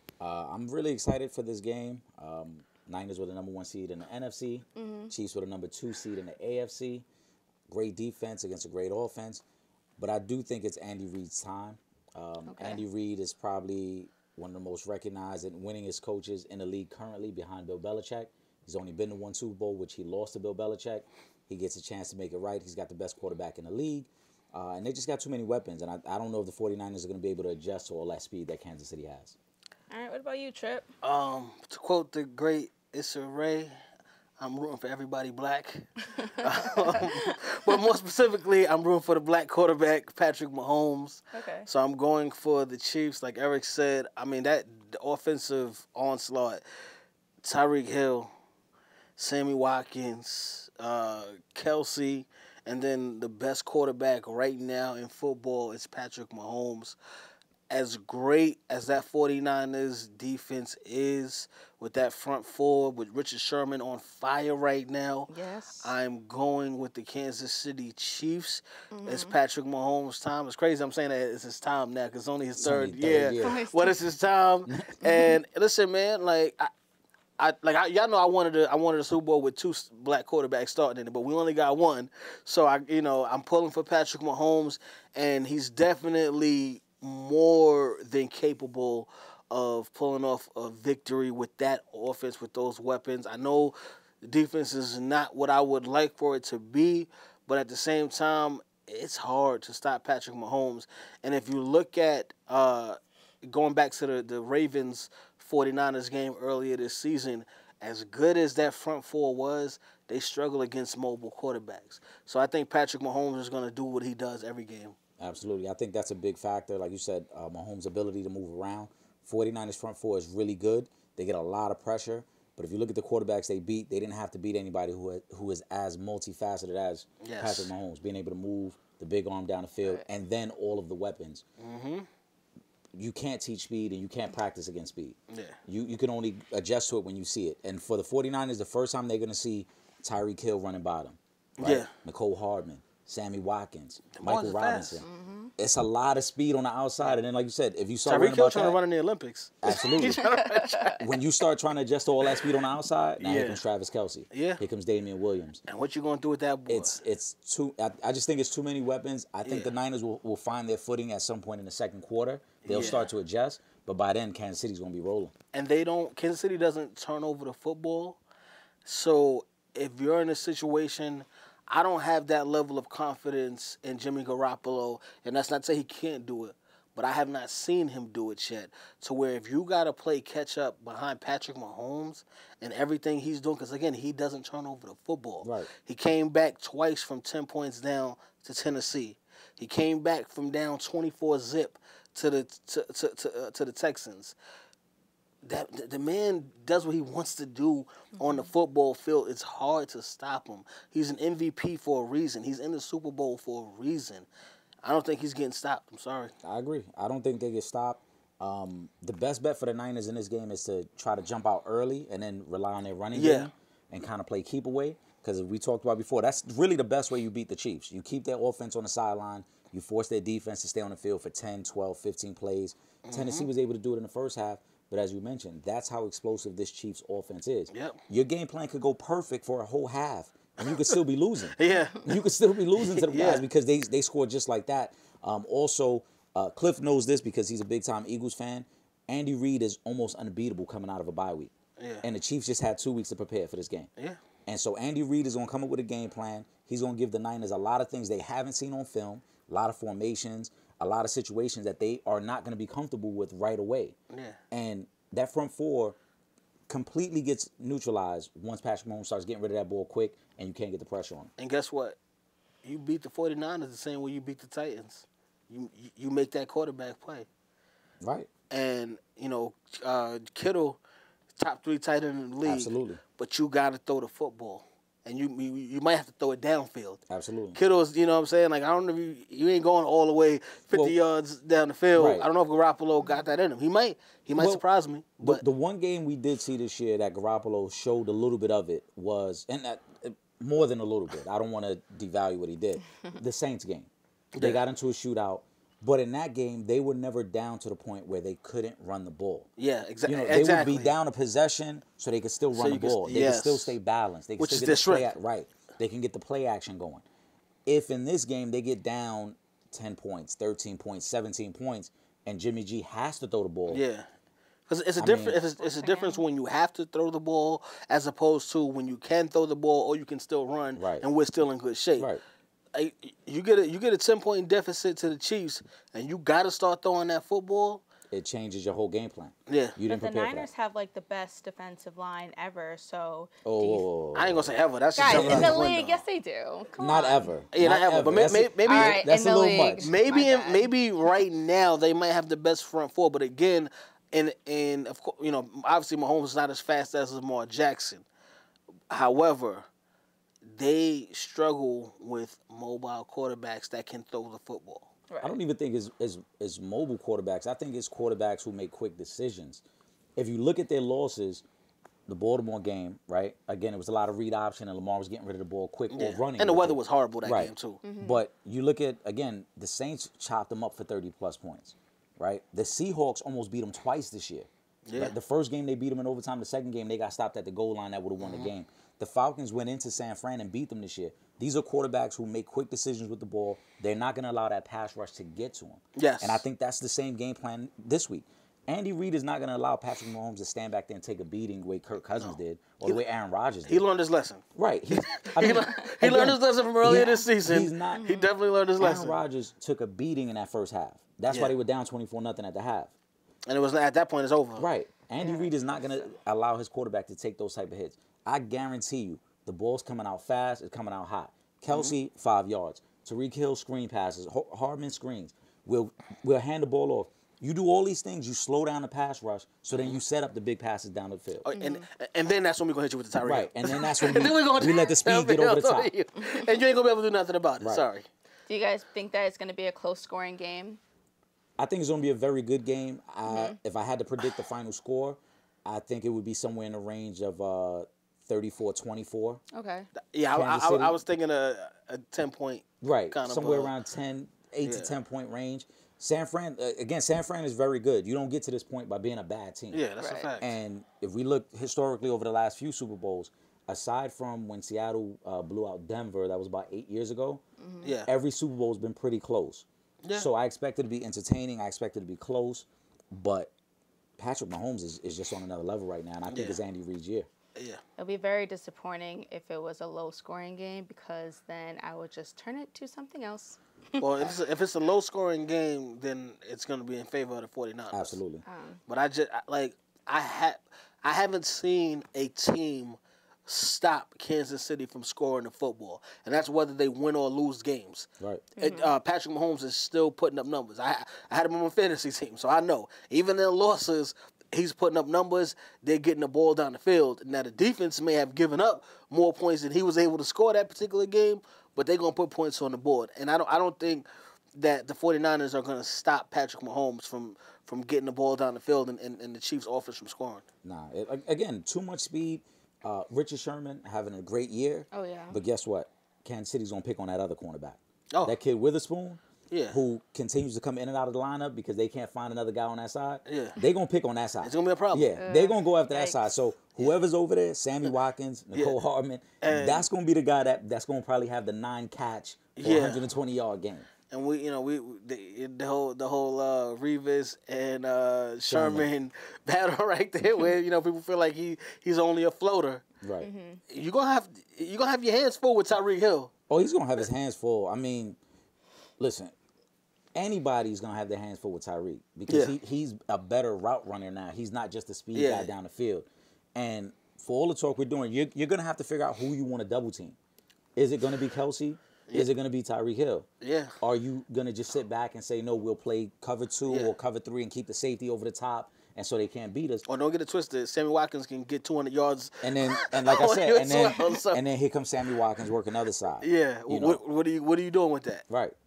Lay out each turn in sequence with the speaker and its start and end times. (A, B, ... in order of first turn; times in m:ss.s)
0:00.2-0:07.1 A
0:04.8-0:05.1 B
0:07.7-0:09.4 A
0:10.0-0:29.4 A
0:12.5-0:12.8 B
0:29.9-0:30.9 B
0:31.0-0:33.7 C
0:34.4-0:46.6 C
0:36.2-0:37.1 B
0:41.3-0:41.7 B
0:47.4-0:48.3 C
0:49.2-0:57.0 C
0:57.7-1:05.3 C
1:05.3-1:05.9 B
1:05.8-1:16.7 C
1:08.9-1:09.3 B
1:12.6-1:13.6 A
1:13.4-1:13.9 B
1:14.7-1:15.1 A
1:17.4-1:55.0 C
1:55.2-2:11.4 A
2:07.2-2:07.7 C
2:11.6-2:12.1 C
2:13.0-2:25.1 A
2:15.3-2:15.6 C
2:21.6-2:21.9 C
2:24.1-2:25.0 C
2:25.0-2:25.5 B
2:25.6-2:28.8 A
2:28.1-2:31.1 C
2:29.6-2:30.3 A
2:30.0-2:30.4 B
2:31.0-2:35.6 A
2:33.2-2:33.6 C
2:34.3-2:34.6 C
2:35.7-2:37.0 C
2:36.7-2:45.3 A
2:39.4-2:39.8 C
2:42.6-2:43.1 C
2:45.5-2:48.2 C
2:48.8-3:14.4 C
3:05.4-3:05.7 A
3:15.4-3:24.3 C
3:18.2-3:18.4 B
3:24.8-3:26.3 C
3:26.4-4:03.9 A
3:33.1-3:33.5 C
3:43.1-3:43.5 C
3:47.7-3:48.0 C
3:50.6-3:51.0 C
3:51.5-3:52.2 C
3:52.8-3:53.5 C
4:01.8-4:02.0 C
4:04.5-4:14.0 A
4:14.1-4:14.4 C
4:14.5-4:16.0 A
4:16.7-4:21.3 A
4:21.4-4:22.0 C
4:22.6-4:27.3 C
4:28.0-4:28.3 A
4:28.5-4:30.8 C
4:31.4-4:37.0 C
4:32.4-4:33.0 A
4:37.1-4:37.6 A
4:37.5-4:45.4 C
4:42.0-4:42.3 A
4:44.4-4:44.6 A
4:45.2-4:59.5 A
4:54.4-4:54.6 C
4:59.6-5:00.9 C
5:00.1-5:07.0 A
5:02.6-5:03.8 C
5:04.4-5:05.1 C
5:07.7-5:13.8 A
5:13.7-5:14.1 C
5:14.7-5:22.1 C
5:15.0-5:15.4 A
5:15.6-5:16.2 B
5:20.8-5:21.1 A
5:22.0-5:22.2 A
5:22.8-5:27.8 C
5:28.1-5:30.5 A
5:29.5-5:29.8 C
5:29.9-5:33.9 B
5:33.4-5:34.5 A
5:34.2-5:36.0 C
5:35.0-5:37.3 B
5:35.0-5:35.6 A
5:36.8-5:39.9 A
5:37.5-5:39.0 C
5:38.7-5:40.7 B
5:39.8-5:48.1 C
5:48.9-5:49.7 C
5:50.5-5:54.9 C
5:55.1-5:55.4 B
5:55.2-5:59.6 A
6:00.2-6:01.4 A
6:02.1-6:33.8 A
6:05.9-6:07.8 C
6:07.8-6:08.2 B
6:14.9-6:15.2 C
6:18.2-6:18.5 C
6:26.0-6:26.4 C
6:32.2-6:33.0 C
6:33.7-6:39.2 C
6:34.6-6:38.0 A
6:38.0-6:38.3 B
6:38.8-6:42.9 A
6:41.3-6:41.5 C
6:43.5-6:44.7 C
6:44.6-7:01.5 A
6:45.2-6:45.5 B
7:01.4-7:08.1 C
7:01.6-7:01.8 B
7:03.2-7:05.9 A
7:08.5-7:10.8 B
7:11.6-7:19.4 A
7:13.3-7:13.6 B
7:19.5-7:19.9 B
7:20.0-7:23.7 C
7:20.3-7:21.0 A
7:22.8-7:29.9 A
7:24.6-7:25.0 C
7:29.7-7:30.6 C
7:30.0-7:30.3 B
7:30.4-7:37.4 A
7:37.6-7:37.9 B
7:37.8-7:38.1 C
7:38.1-7:43.5 A
7:44.2-7:47.3 A
7:46.3-7:46.6 C
7:48.0-7:54.1 B
7:54.0-7:58.2 C
7:57.9-7:58.4 A
7:58.5-7:58.8 B
7:58.9-8:30.4 C
8:08.2-8:08.5 A
8:08.6-8:08.9 B
8:30.6-8:53.9 A
8:34.9-8:35.4 B
8:38.1-8:38.4 C
8:39.5-8:39.8 C
8:43.3-8:43.6 C
8:44.4-8:45.1 C
8:45.2-8:46.3 B
8:49.4-8:49.9 C
8:52.6-8:53.0 C
8:54.1-9:02.8 C
8:58.5-8:58.9 A
9:03.0-9:03.3 A
9:03.2-9:03.6 B
9:03.7-9:06.3 C
9:06.5-9:08.2 A
9:09.0-9:09.3 A
9:10.2-9:20.2 A
9:12.3-9:12.6 C
9:15.2-9:15.5 C
9:20.8-9:23.3 A
9:23.4-9:23.7 C
9:23.8-9:29.8 A
9:26.7-9:27.0 C
9:29.9-9:34.4 C
9:32.4-9:37.0 A
9:36.2-9:38.2 C
9:38.3-9:38.6 A